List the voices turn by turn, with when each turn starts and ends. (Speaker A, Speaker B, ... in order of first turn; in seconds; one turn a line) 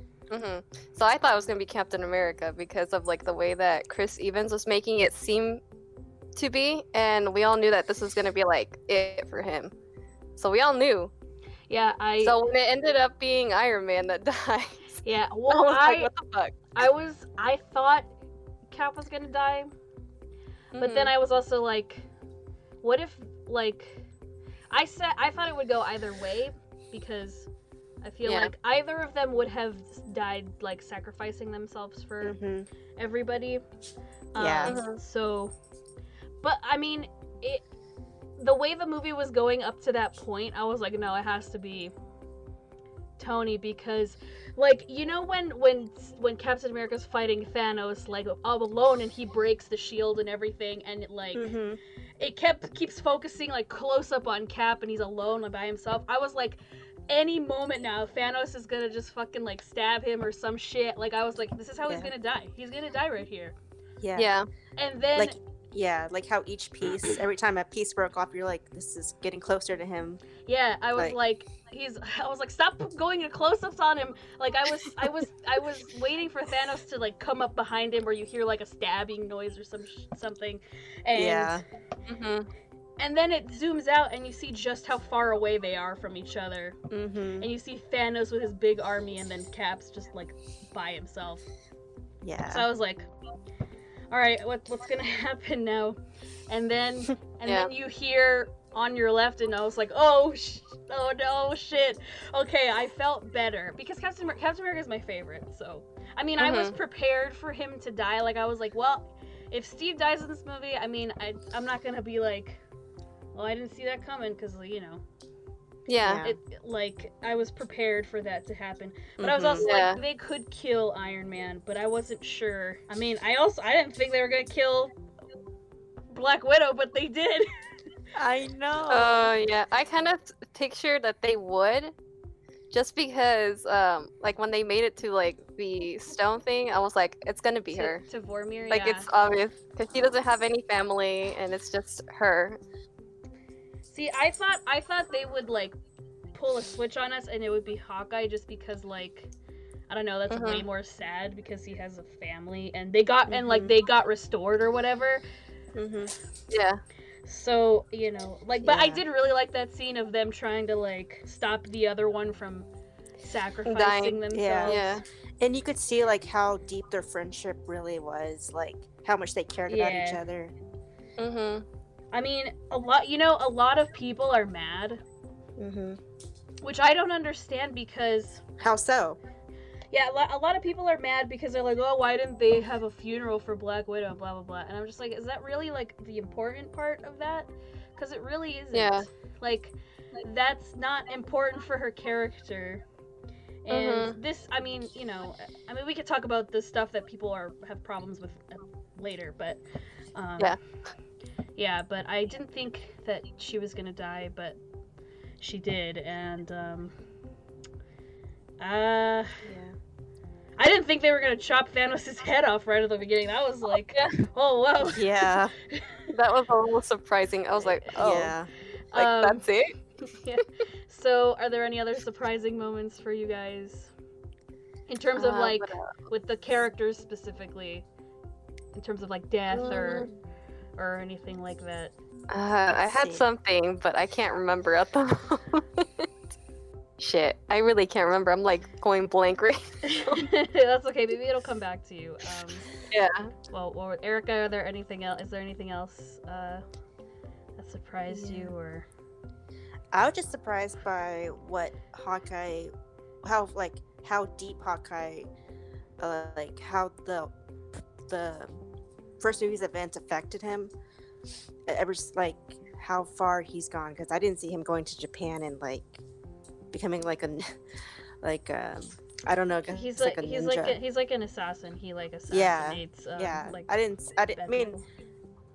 Speaker A: 0.3-5.6
Speaker A: 6.4-9.7
Speaker A: 10.4-11.1
Speaker B: 11.7-12.4
Speaker A: 12.2-16.7
Speaker B: 15.0-16.1
Speaker B: 16.8-18.1
Speaker B: 18.7-19.7
Speaker A: 20.7-21.1
Speaker B: 20.8-22.1
Speaker B: 22.8-24.1
Speaker B: 24.7-27.5
Speaker B: 28.0-32.4
Speaker A: 28.3-28.5
Speaker C: 32.2-32.7
Speaker B: 33.0-33.6
Speaker B: 34.3-35.5
Speaker C: 34.4-34.8
Speaker A: 34.6-35.0
Speaker B: 36.4-37.6
Speaker B: 38.4-41.9
Speaker B: 43.2-51.5
Speaker C: 51.3-51.8
Speaker B: 52.2-63.5
Speaker C: 64.0-64.3
Speaker A: 64.2-64.5
Speaker B: 64.8-65.4
Speaker C: 65.2-70.2
Speaker B: 70.5-81.6
Speaker C: 81.2-81.6
Speaker A: 82.1-82.5
Speaker B: 83.0-86.8
Speaker C: 86.9-87.5
Speaker B: 87.4-91.4
Speaker C: 92.2-92.7
Speaker B: 92.5-93.1
Speaker B: 94.1-112.6
Speaker A: 106.4-106.8
Speaker B: 113.3-115.0
Speaker A: 115.9-116.2
Speaker C: 116.0-116.4
Speaker B: 116.2-124.9
Speaker C: 119.2-119.7
Speaker A: 119.6-120.0
Speaker B: 126.1-127.5
Speaker C: 128.2-129.3
Speaker A: 128.9-131.9
Speaker A: 132.7-138.0
Speaker B: 137.7-139.1
Speaker A: 138.7-142.6
Speaker B: 143.9-145.8
Speaker B: 146.3-149.3
Speaker B: 149.9-155.2
Speaker A: 150.3-150.7
Speaker C: 153.3-153.7
Speaker C: 155.8-156.1
Speaker A: 156.5-156.8
Speaker B: 157.2-162.7
Speaker C: 158.7-159.0
Speaker B: 163.2-164.9
Speaker A: 163.7-165.0
Speaker C: 164.3-164.9
Speaker C: 165.4-170.5
Speaker B: 169.7-170.2
Speaker A: 171.2-171.7
Speaker B: 172.1-175.0
Speaker C: 175.6-176.0
Speaker B: 176.6-178.4
Speaker C: 178.6-179.2
Speaker B: 179.9-192.8
Speaker A: 188.7-189.1
Speaker B: 193.7-199.6
Speaker A: 193.7-194.2
Speaker B: 200.2-200.6
Speaker B: 201.6-204.6
Speaker B: 205.4-206.9
Speaker B: 208.6-209.4
Speaker C: 209.4-209.8
Speaker B: 210.6-216.1
Speaker C: 214.8-215.5
Speaker A: 216.1-218.3
Speaker B: 217.6-218.3
Speaker C: 218.0-218.5
Speaker B: 218.9-219.4
Speaker A: 218.9-219.7
Speaker B: 220.0-223.9
Speaker B: 224.9-227.9
Speaker A: 225.2-225.9
Speaker B: 228.7-230.1
Speaker A: 229.5-230.1
Speaker B: 230.8-231.9
Speaker A: 232.3-236.1
Speaker C: 232.7-233.2
Speaker A: 237.0-240.3
Speaker B: 239.9-242.7
Speaker A: 242.9-243.3
Speaker B: 243.5-246.6
Speaker B: 247.6-248.9
Speaker C: 248.1-248.5
Speaker C: 249.9-252.7
Speaker C: 253.2-255.3
Speaker C: 256.0-257.3
Speaker C: 258.1-258.6
Speaker C: 259.2-260.7
Speaker C: 261.7-266.0
Speaker C: 266.7-267.5
Speaker C: 268.2-270.8
Speaker B: 269.7-273.7
Speaker C: 272.3-274.8
Speaker B: 274.3-274.8